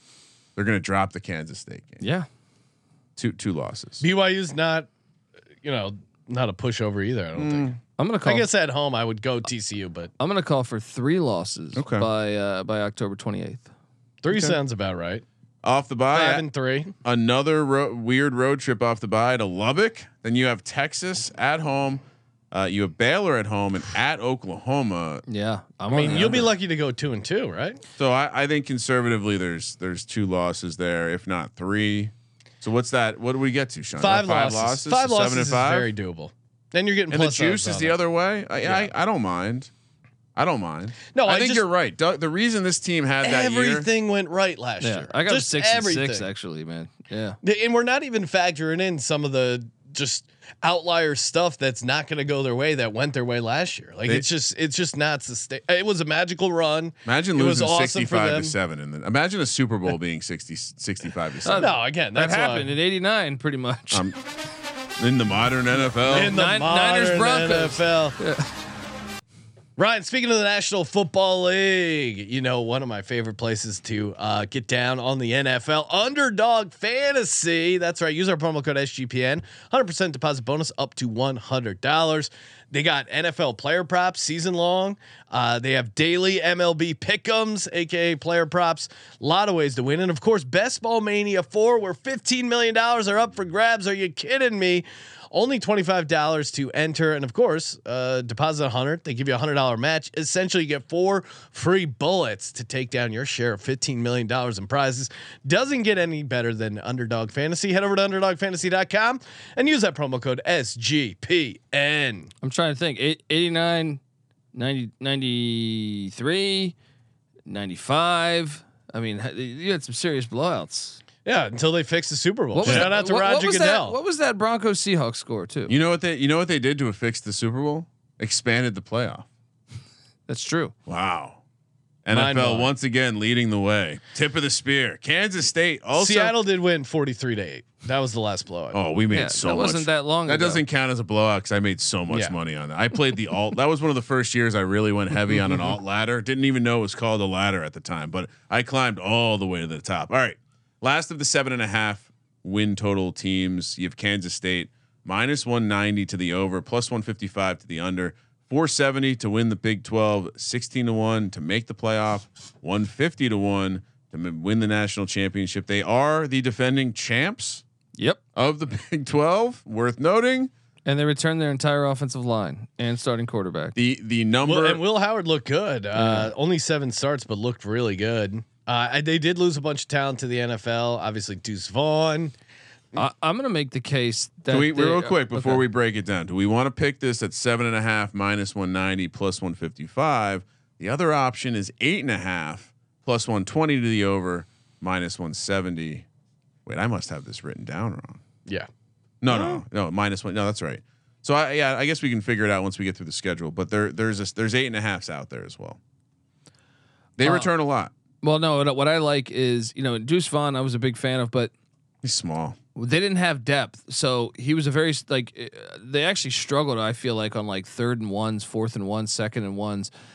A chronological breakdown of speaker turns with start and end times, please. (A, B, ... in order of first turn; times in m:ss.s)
0:00.6-0:02.0 A
0:02.0-0:02.3 B
0:03.2-0:04.0 A
0:04.0-0:04.9 C
0:05.6-0:10.1 C
0:07.4-0:07.8 A
0:08.0-0:08.5 B
0:10.2-0:13.7 B
0:11.8-0:12.1 A
0:14.2-0:15.2 C
0:15.6-0:16.4 A
0:16.1-0:16.9 C
0:17.0-0:25.2 A
0:25.3-0:26.5 B
0:25.9-0:27.8 C
0:26.0-0:26.5 A
0:28.0-0:35.9 A
0:34.0-0:38.0 C
0:37.1-0:39.7 A
0:38.6-0:38.9 C
0:40.4-0:43.9 A
0:41.1-0:41.7 C
0:43.2-0:46.3 C
0:44.8-0:47.4 B
0:47.4-0:58.6 C
0:57.0-1:01.7 A
1:01.4-1:04.0 B
1:01.6-1:02.7 C
1:03.9-1:04.2 A
1:05.0-1:06.4 A
1:06.1-1:08.2 C
1:06.1-1:08.5 B
1:09.8-1:52.3 C
1:52.4-1:54.0 B
1:54.5-1:56.8 B
1:57.5-2:01.0 B
2:01.2-2:04.0 C
2:02.6-2:05.7 B
2:02.6-2:02.9 A
2:05.7-2:09.3 A
2:10.3-2:10.7 B
2:10.9-2:11.4 A
2:12.0-2:16.4 A
2:12.1-2:12.7 C
2:16.0-2:18.8 C
2:18.7-2:47.6 A
2:19.1-2:20.6 B
2:22.1-2:22.4 C
2:48.4-2:50.5 A
2:50.9-2:53.8 B
2:53.8-2:54.8 A
2:54.4-3:02.3 C
2:56.0-2:56.3 B
3:03.0-3:05.6 B
3:04.5-3:16.1 A
3:16.7-3:18.2 A
3:19.2-3:25.8 A
3:19.3-3:19.6 C
3:27.2-3:27.9 A
3:27.2-3:27.5 B
3:28.2-3:31.5 B
3:32.0-3:32.6 A
3:32.8-3:39.9 B